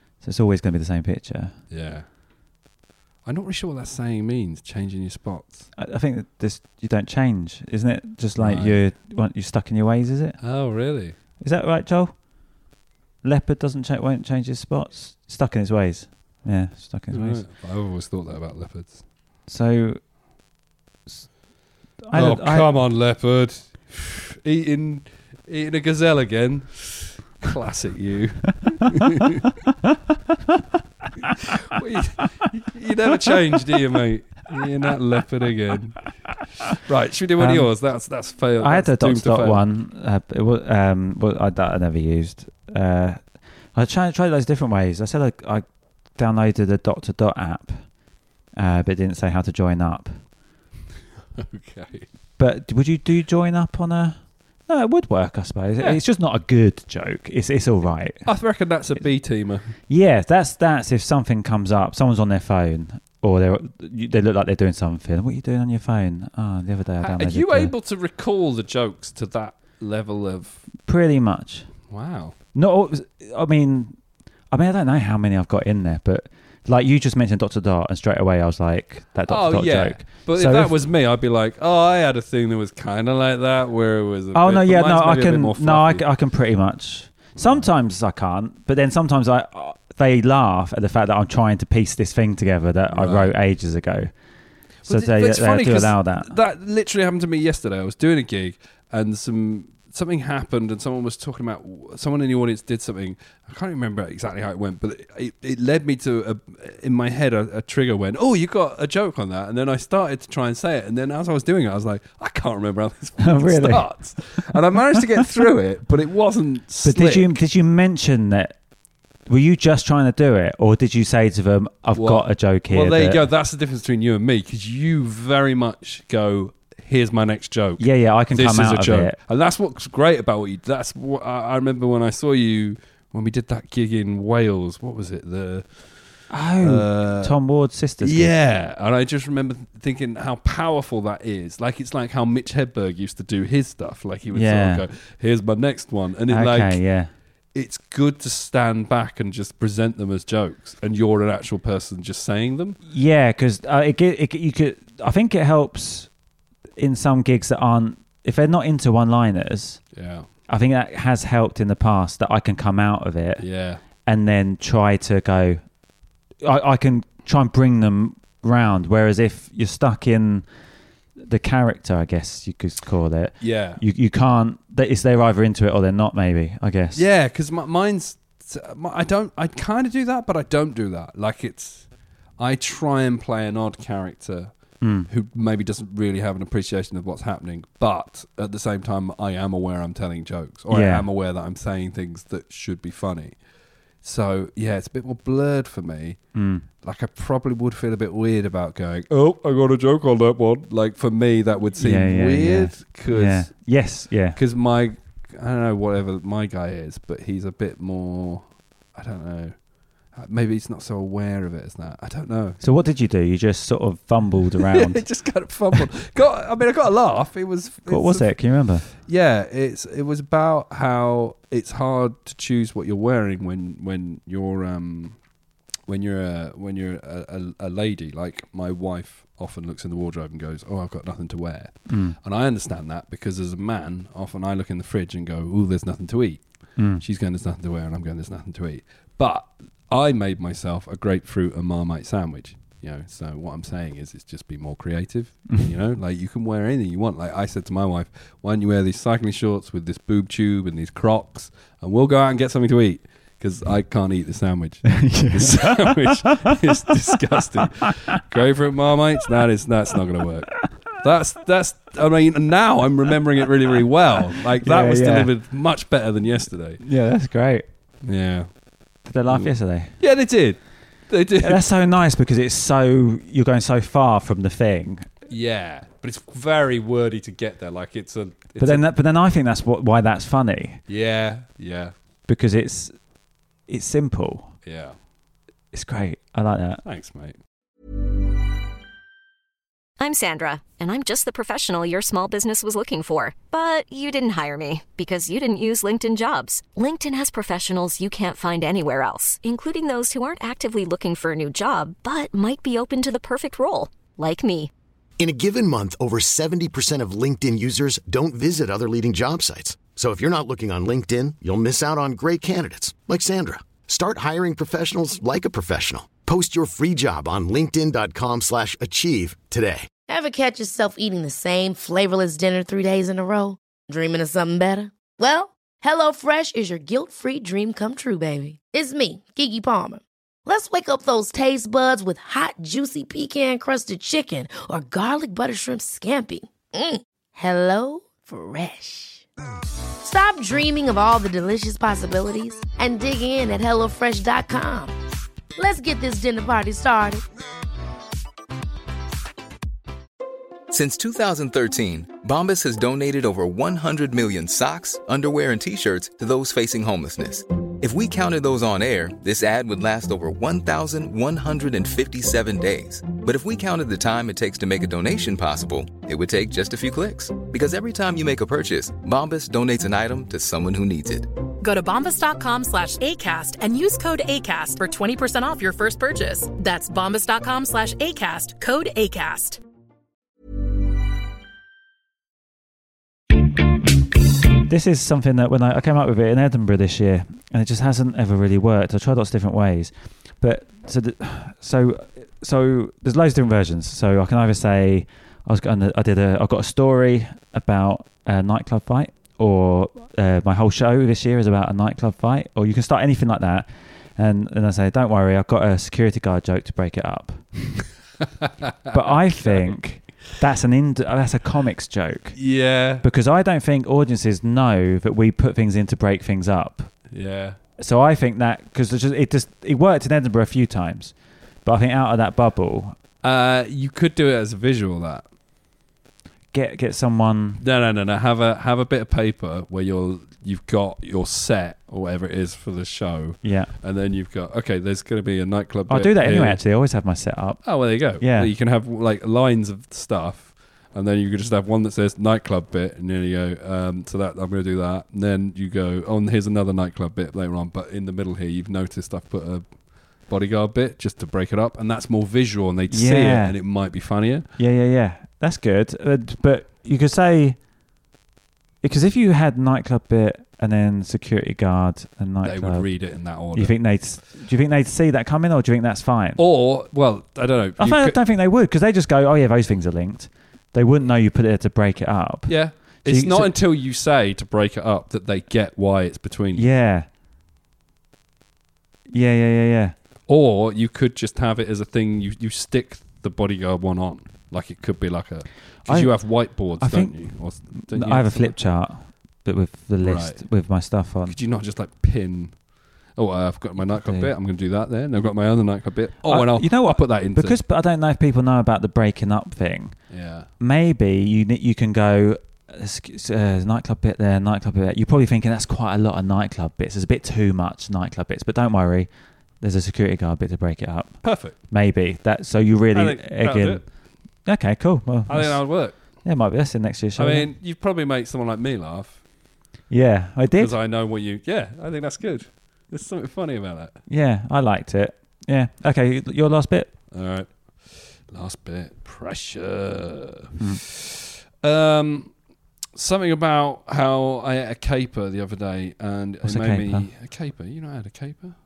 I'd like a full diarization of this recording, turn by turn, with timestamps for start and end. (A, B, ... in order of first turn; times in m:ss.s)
0:00.2-0:01.5 A
0:01.7-0:02.1 B
0:03.2-0:05.7 B
0:05.8-0:10.4 A
0:08.4-0:08.8 B
0:10.4-0:11.2 B
0:11.4-0:12.2 A
0:13.2-0:17.4 A
0:17.1-0:19.0 B
0:19.5-0:20.0 A
0:22.0-0:22.8 A
0:22.1-0:29.4 B
0:31.6-0:36.1 B
0:36.7-0:39.6 B
0:37.4-0:37.7 A
0:38.6-0:47.8 A
0:48.5-0:50.2 A
0:51.4-0:52.1 B
0:52.4-0:58.2 A
0:58.2-0:59.7 B
0:59.9-1:07.7 A
1:07.0-1:10.6 B
1:10.8-1:11.7 A
1:11.9-1:12.3 B
1:12.5-1:14.0 A
1:14.5-1:20.7 A
1:19.3-1:26.1 B
1:24.3-1:34.1 A
1:27.4-1:27.7 B
1:32.9-1:33.3 B
1:34.8-1:36.4 A
1:34.8-1:57.4 B
1:53.2-1:54.5 A
1:56.8-1:58.6 A
1:59.2-2:03.2 A
2:02.0-2:16.1 B
2:07.8-2:09.2 A
2:16.3-2:18.3 A
2:16.6-2:17.3 B
2:18.0-2:26.8 B
2:24.3-2:24.8 A
2:26.3-2:27.1 A
2:27.5-2:32.8 B
2:32.9-2:36.1 A
2:36.8-2:39.8 A
2:39.9-2:40.3 B
2:40.5-2:43.4 A
2:43.4-2:43.8 B
2:44.0-2:45.6 A
2:46.4-2:50.4 A
2:51.2-2:57.0 A
2:53.4-2:53.8 B
2:56.9-3:13.4 B
3:04.8-3:05.1 A
3:10.7-3:11.1 A
3:14.0-3:23.7 B
3:16.3-3:16.6 A
3:21.8-3:24.4 A
3:24.3-3:32.6 B
3:32.6-3:35.0 A
3:34.7-3:45.2 B
3:37.9-3:38.9 A
3:45.8-4:26.8 B
3:51.9-3:52.2 A
3:56.8-3:57.0 A
4:14.9-4:17.1 A
4:24.6-4:25.3 A
4:26.8-4:27.6 A
4:28.0-4:28.6 B
4:29.0-4:29.9 A
4:29.3-4:31.8 B
4:31.4-4:35.1 A
4:35.3-4:38.8 B
4:38.6-4:40.8 A
4:40.9-4:41.9 B
4:42.3-4:43.0 A
4:43.7-4:44.5 A
4:44.6-4:45.0 B
4:45.7-4:46.8 A
4:46.8-4:47.4 B
4:50.0-5:04.7 C
5:05.2-5:19.9 D
5:20.1-5:39.2 E
5:40.0-5:44.9 E
5:45.6-5:47.2 E
5:50.7-6:11.3 F
6:11.6-6:19.6 G
6:24.6-6:47.6 A
6:48.4-6:49.8 B
6:48.9-6:52.4 A
6:52.3-6:53.0 B
6:53.0-6:56.9 A
6:57.1-6:57.6 B
6:57.8-7:02.9 A
7:03.2-7:05.2 B
7:06.5-7:07.6 A
7:07.6-7:16.6 B
7:13.4-7:13.7 A
7:15.9-7:18.5 A
7:17.6-7:34.5 B
7:32.9-7:34.0 A
7:34.6-7:37.6 A
7:38.8-7:46.4 A
7:42.4-7:43.8 B
7:46.4-7:48.2 B
7:47.8-7:53.6 A
7:52.5-7:56.7 B
7:56.5-7:57.1 A
7:59.1-7:59.9 A
8:00.3-8:08.6 B
8:05.8-8:11.3 A
8:10.0-8:10.4 B
8:11.3-8:17.6 B
8:13.9-8:14.3 A
8:16.2-8:20.0 A
8:20.1-8:20.5 B
8:20.5-8:29.1 A
8:29.6-8:33.8 A
8:31.2-8:31.6 B
8:32.9-8:33.8 B
8:34.4-8:37.5 A
8:35.3-8:36.0 B
8:37.2-8:39.2 B
8:39.9-8:40.7 A
8:40.6-8:44.0 B
8:44.1-8:46.9 A
8:47.1-8:52.4 B
8:50.6-8:50.8 A
8:52.9-8:58.6 B
8:56.4-8:57.1 A